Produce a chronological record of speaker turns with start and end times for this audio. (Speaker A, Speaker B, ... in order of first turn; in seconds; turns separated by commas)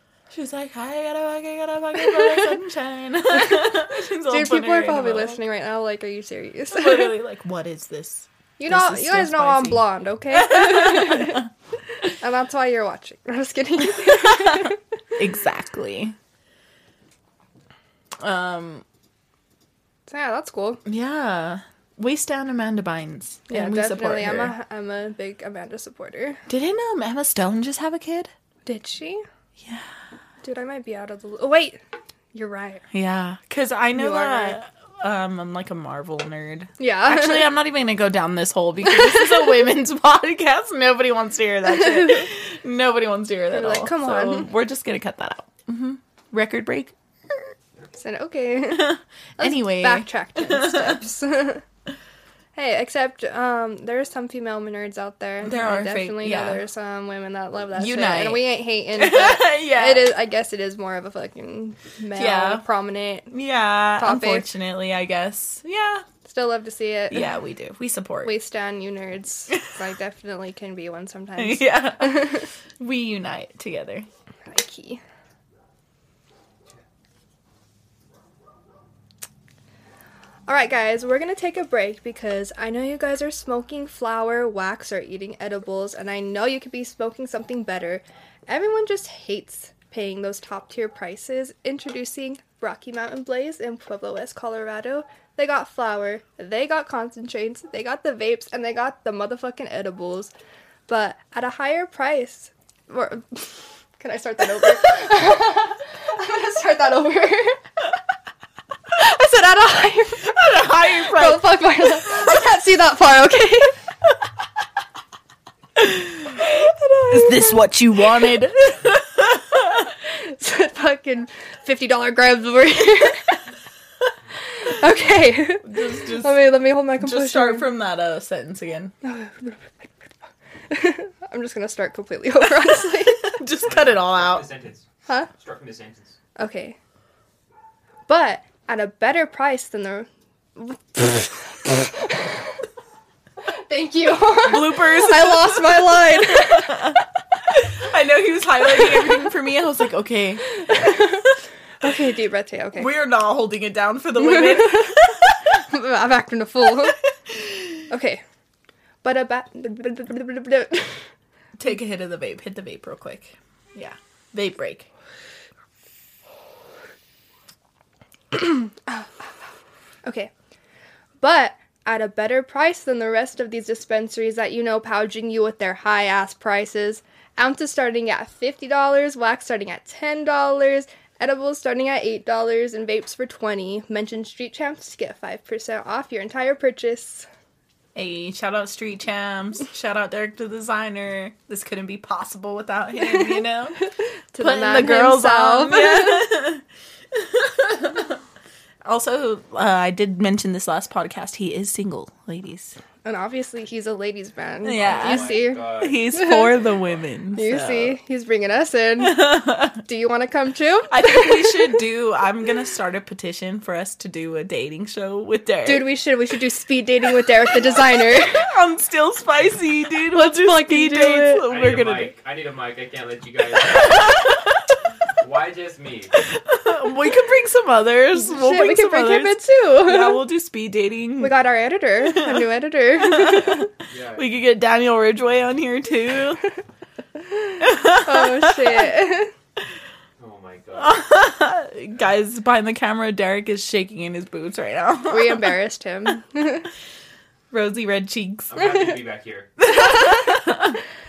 Speaker A: 0.3-5.4, Speaker B: 2.1-2.4, Speaker B: 4.3-7.1, Speaker A: 6.7-11.5, Speaker B: 8.6-11.4, Speaker B: 12.1-14.8, Speaker A: 14.0-16.1, Speaker A: 18.2-18.8, Speaker B: 20.1-20.8, Speaker A: 20.9-24.5, Speaker B: 23.5-26.4, Speaker A: 26.5-28.3, Speaker B: 28.6-29.2, Speaker A: 29.6-29.9, Speaker B: 30.4-31.8, Speaker B: 32.3-32.8, Speaker A: 32.9-47.5, Speaker B: 33.9-34.6, Speaker B: 36.8-37.5, Speaker B: 38.8-39.6, Speaker B: 41.7-42.3, Speaker B: 43.5-44.5, Speaker B: 48.0-51.6, Speaker A: 48.7-51.0, Speaker B: 52.5-63.3, Speaker A: 55.4-56.6, Speaker A: 57.8-58.4, Speaker A: 59.0-60.1, Speaker A: 62.1-62.6, Speaker A: 63.3-66.0, Speaker B: 64.0-64.5, Speaker B: 66.2-67.3, Speaker A: 67.1-68.3, Speaker B: 68.2-72.5, Speaker A: 71.4-74.1, Speaker B: 74.5-75.0, Speaker B: 80.5-100.3, Speaker B: 100.9-107.6, Speaker B: 108.9-110.4, Speaker A: 110.2-111.6, Speaker B: 111.0-113.8, Speaker A: 115.8-116.4, Speaker B: 116.3-117.6, Speaker A: 117.1-119.9, Speaker B: 120.0-123.4, Speaker B: 124.5-125.7, Speaker A: 125.6-126.5, Speaker B: 126.2-127.7, Speaker A: 127.0-128.9, Speaker B: 129.0-130.1, Speaker B: 130.7-133.4, Speaker A: 132.7-134.5, Speaker C: 133.6-136.2, Speaker B: 136.4-136.8, Speaker B: 138.1-142.4, Speaker B: 143.5-147.0, Speaker A: 144.4-150.4, Speaker B: 150.5-151.3, Speaker B: 151.8-152.9, Speaker A: 152.8-155.4, Speaker B: 154.2-157.0, Speaker A: 157.3-157.7, Speaker B: 157.9-158.2, Speaker B: 159.0-161.1, Speaker A: 161.6-164.9, Speaker B: 168.3-169.1, Speaker B: 170.0-170.3, Speaker B: 171.2-187.3, Speaker A: 187.9-193.8, Speaker B: 194.3-196.3, Speaker A: 194.4-198.2, Speaker A: 198.8-202.8, Speaker B: 203.0-206.5, Speaker A: 204.6-208.0, Speaker C: 204.7-206.3, Speaker B: 207.3-209.2, Speaker A: 209.0-209.8, Speaker B: 209.8-211.8, Speaker A: 210.9-215.9, Speaker B: 215.6-218.5, Speaker A: 217.6-222.1, Speaker B: 220.1-221.4, Speaker C: 221.4-224.2, Speaker A: 223.8-224.5, Speaker C: 225.2-226.2, Speaker A: 226.2-231.3, Speaker B: 228.1-230.2, Speaker B: 231.2-233.7, Speaker A: 232.0-236.4, Speaker C: 233.9-234.3, Speaker B: 237.3-239.3, Speaker A: 237.6-238.9, Speaker C: 240.2-241.0, Speaker A: 240.8-245.5, Speaker B: 245.1-246.7, Speaker A: 247.5-248.8, Speaker C: 248.5-249.5, Speaker A: 249.6-250.8